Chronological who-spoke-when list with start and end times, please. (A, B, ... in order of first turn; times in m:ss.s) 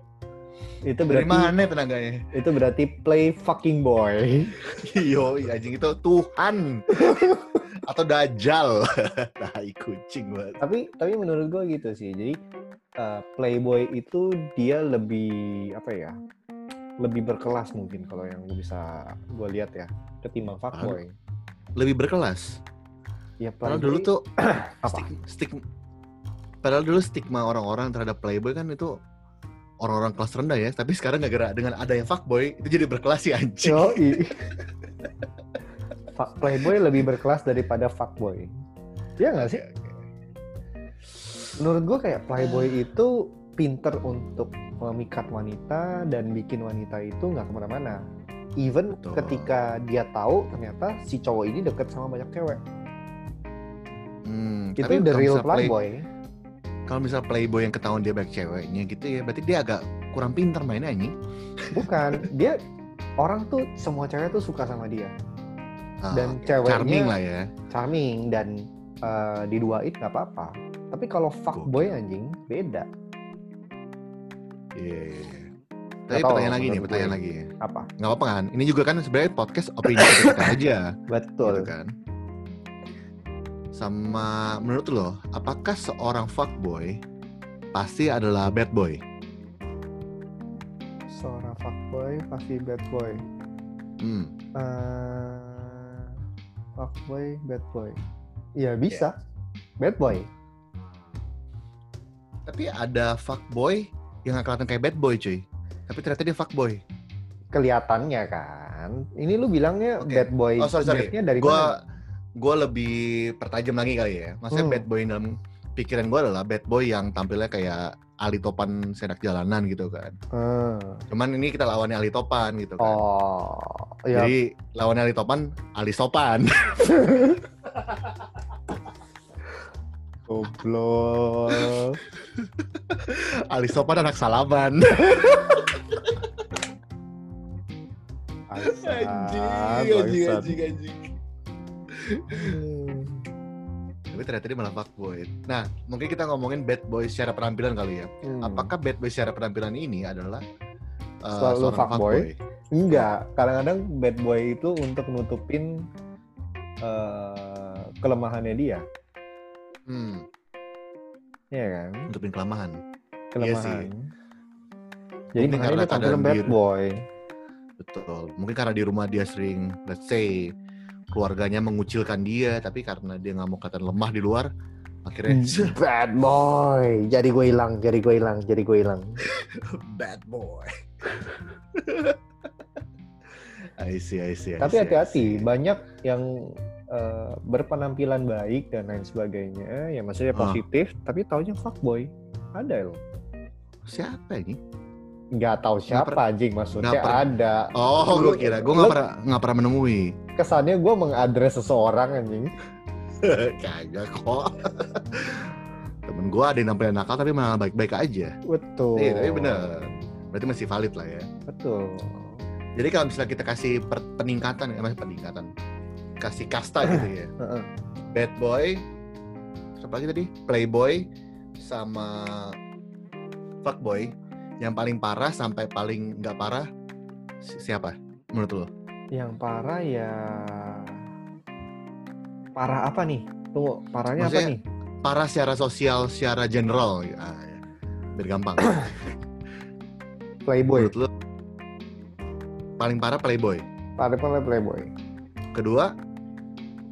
0:00.9-0:01.6 A
0:01.1-0:02.3 B
0:02.3-0:04.6 A
0:04.8-0:10.6 B
0:06.9-0:07.6 A
0:10.6-0:12.4 A
0:13.0-0:16.2 A
0:17.0-0:21.2 A
0:20.7-0:21.0 B
0:21.8-0:22.6 B
0:23.4-0:25.1 A
0:23.6-0:24.2 B
0:24.8-0:25.6 B
0:26.6-0:29.0 B
0:29.8-0:34.2 B
0:33.6-0:34.5 A
0:36.1-0:38.5 A
0:39.2-0:39.6 A
0:39.4-0:40.0 B
0:41.6-0:48.0 A
0:42.4-0:42.7 B
0:48.6-0:52.6 A
0:48.9-0:49.5 B
0:54.2-0:55.7 B
0:54.8-0:56.1 A
0:56.9-1:02.2 B
1:01.7-1:02.6 A
1:03.2-1:05.1 A
1:06.0-1:07.5 B
1:06.1-1:07.1 A
1:07.7-1:12.9 A
1:11.5-1:12.0 B
1:14.8-1:15.5 B
1:16.1-1:17.5 B
1:16.1-1:17.9 A
1:18.0-1:21.9 B
1:19.9-1:20.5 A
1:21.1-1:21.7 A
1:23.7-1:27.0 B
1:27.7-1:29.0 B
1:31.1-1:33.2 A
1:34.0-1:34.3 B
1:34.6-1:36.2 A
1:36.8-1:38.0 A
1:38.6-1:39.1 A
1:39.8-1:40.3 A
1:42.4-1:46.8 B
1:47.5-1:51.8 A
1:50.0-1:51.8 B
1:52.4-2:00.2 B
1:54.5-1:54.8 A
2:00.3-2:01.0 A
2:01.1-2:03.0 B
2:02.8-2:04.3 A
2:04.1-2:07.2 B
2:06.9-2:07.4 A
2:10.3-2:12.0 A
2:11.5-2:16.3 B
2:18.5-2:20.6 A
2:18.6-2:21.1 B
2:21.9-2:22.6 B
2:22.5-2:23.2 A
2:24.1-2:30.4 B
2:28.2-2:28.7 A
2:31.2-2:32.4 B
2:31.3-2:35.8 A
2:36.8-2:38.8 A
2:39.9-2:40.3 B
2:41.5-2:42.1 A
2:42.1-2:42.8 B
2:43.3-2:44.1 A
2:43.4-2:43.9 B
2:45.4-2:47.0 A
2:45.4-2:46.6 B
2:47.8-2:50.5 B
2:51.1-2:54.5 B
2:55.0-2:55.8 B
2:55.3-2:59.2 A
2:59.2-3:01.2 B
3:01.7-3:02.2 B
3:03.8-3:05.5 B
3:04.6-3:13.0 A
3:10.4-3:10.6 B
3:13.9-3:14.6 B
3:15.4-3:19.0 A
3:15.9-3:16.2 B
3:16.8-3:20.1 B
3:20.4-3:22.5 A
3:23.2-3:28.3 B
3:28.5-3:29.9 A
3:29.0-3:31.3 B
3:31.5-3:32.4 A
3:32.8-3:35.5 B
3:36.2-3:37.3 B
3:36.9-3:37.7 A
3:38.1-3:38.8 B
3:39.8-3:41.1 B
3:41.6-3:42.6 B
3:43.6-3:46.7 B
3:47.4-3:48.7 B
3:49.2-3:51.0 A
3:52.6-3:54.6 A
3:54.2-3:57.6 B
3:58.2-3:59.1 B
4:00.5-4:01.0 A
4:00.7-4:01.1 B
4:02.8-4:03.6 B
4:04.0-4:04.9 A
4:05.5-4:05.9 B